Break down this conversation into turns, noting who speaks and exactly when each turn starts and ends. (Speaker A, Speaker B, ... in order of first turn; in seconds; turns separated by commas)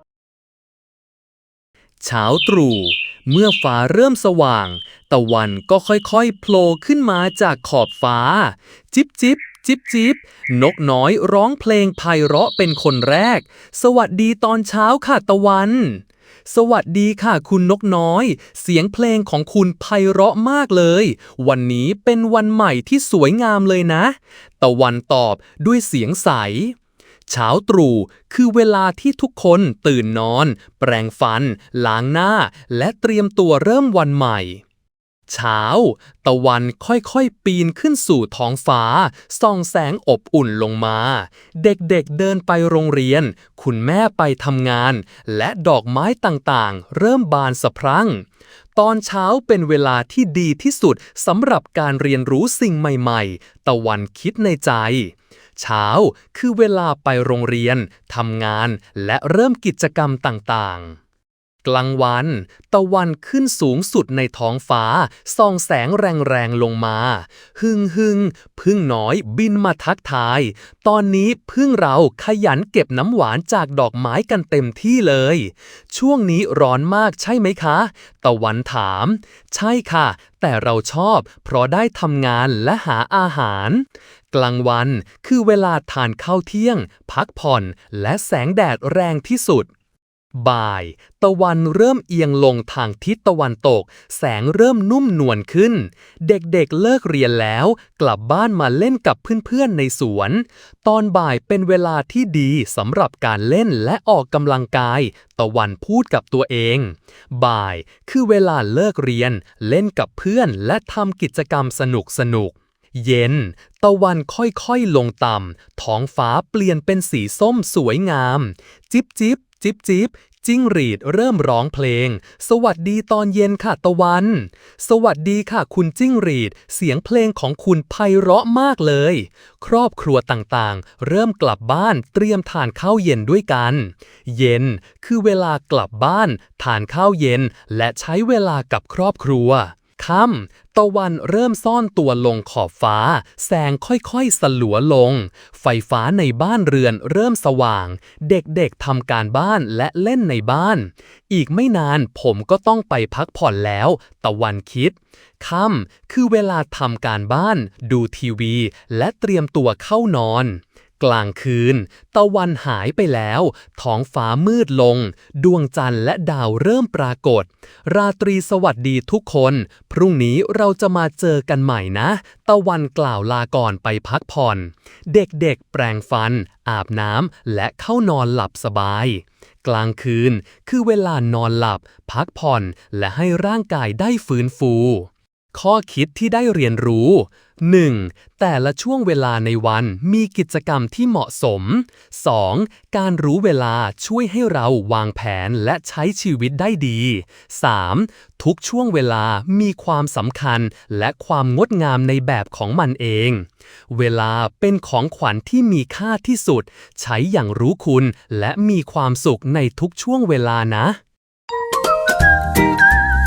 Speaker A: 2.0-26.8, Speaker A: 27.3-34.6, Speaker A: 35.3-61.0, Speaker A: 61.6-89.7, Speaker A: 90.3-211.0